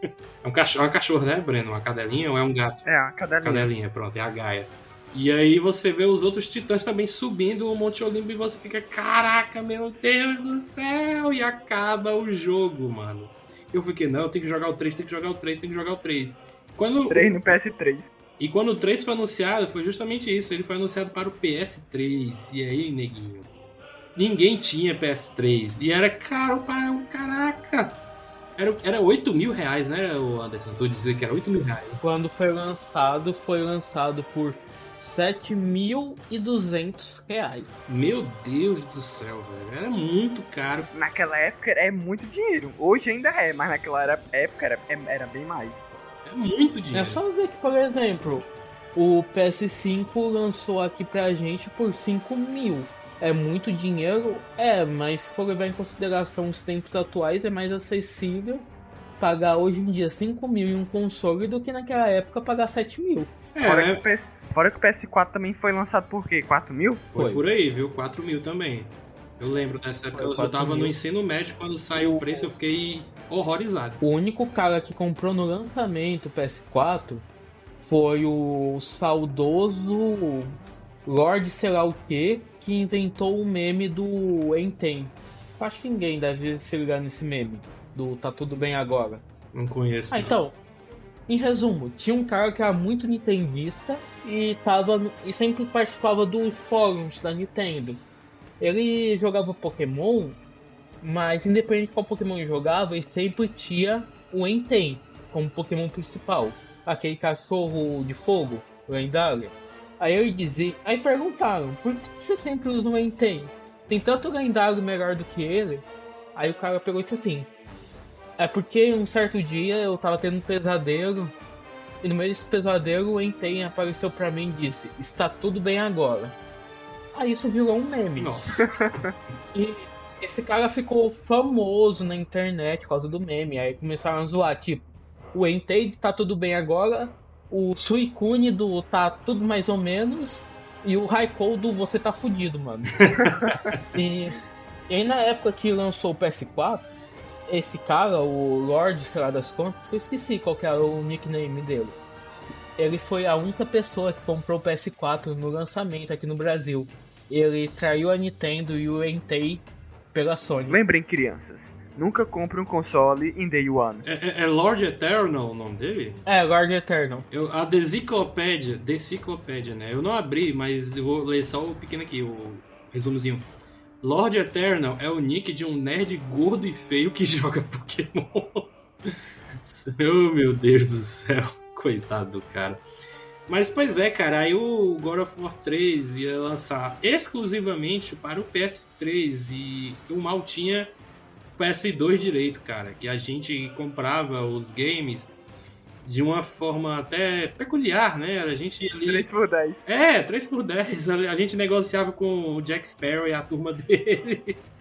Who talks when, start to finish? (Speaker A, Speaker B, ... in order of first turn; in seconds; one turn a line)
Speaker A: 0.4-2.8
Speaker B: 2.8-3.7
Speaker A: 3.4-17.4
Speaker B: 17.1-18.1
Speaker A: 18.4-23.5
Speaker A: 24.1-28.0
Speaker A: 28.6-32.0
Speaker C: 32.0-37.9
Speaker A: 37.9-40.9
Speaker B: 40.9-45.8
Speaker A: 46.2-47.2
Speaker C: 46.9-58.7
Speaker C: 59.2-63.3
Speaker A: 63.5-64.0
Speaker B: 63.6-67.0
Speaker A: 67.1-74.0
Speaker C: 67.1-67.4
Speaker C: 70.1-70.9
Speaker C: 71.9-72.5
Speaker C: 74.0-77.2
Speaker C: 77.8-89.2
Speaker A: 89.5-90.4
Speaker C: 90.1-90.6
Speaker C: 91.3-98.0
Speaker C: 98.6-100.4
Speaker C: 101.0-117.5
Speaker C: 118.4-121.3
Speaker C: 122.0-126.3
Speaker C: 127.1-128.3
Speaker A: 128.2-129.0
Speaker C: 129.5-143.1
Speaker A: 143.0-143.8
Speaker C: 143.9-144.3
Speaker C: 144.9-146.9
Speaker C: 147.5-152.0
Speaker C: 152.8-160.8
Speaker B: 160.7-164.0
Speaker A: 164.0-166.2
Speaker C: 166.2-167.3
Speaker A: 167.3-173.4
Speaker A: 174.0-178.7
Speaker A: 179.6-182.8
Speaker A: 183.5-190.9
Speaker A: 191.6-195.3
Speaker A: 196.0-199.3
Speaker B: 199.1-199.8
Speaker A: 199.8-204.6